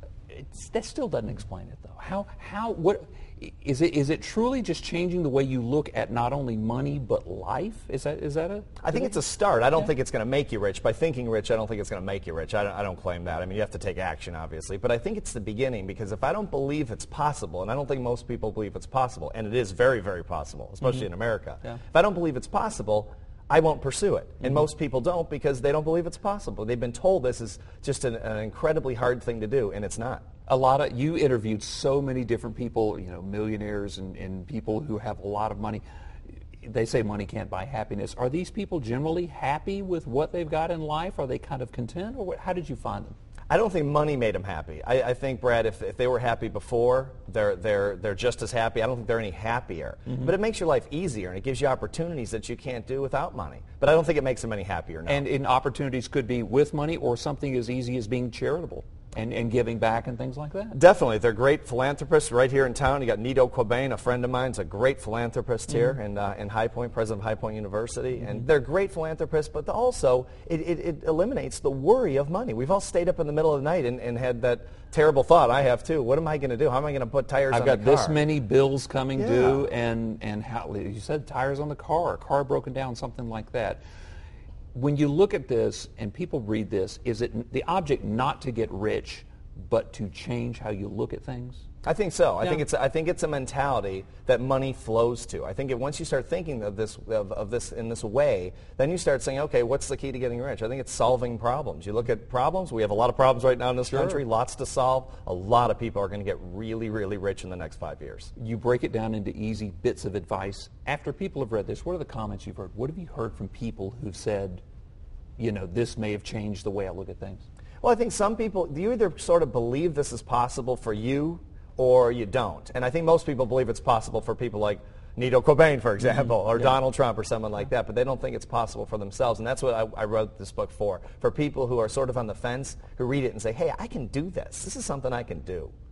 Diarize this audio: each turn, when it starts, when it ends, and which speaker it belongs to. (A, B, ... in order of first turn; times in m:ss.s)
0:00.3-0:09.1 A
0:08.8-0:30.2 B
0:30.5-0:35.8 A
0:36.6-0:43.1 A
0:43.5-0:55.2 B
0:55.1-1:00.8 A
1:00.7-1:18.2 B
1:17.5-1:23.8 A
1:19.2-1:19.6 B
1:24.7-1:31.6 A
1:31.8-1:48.3 B
1:43.8-1:44.2 A
1:48.4-1:54.6 A
1:55.4-1:57.4 A
1:57.8-2:15.7 B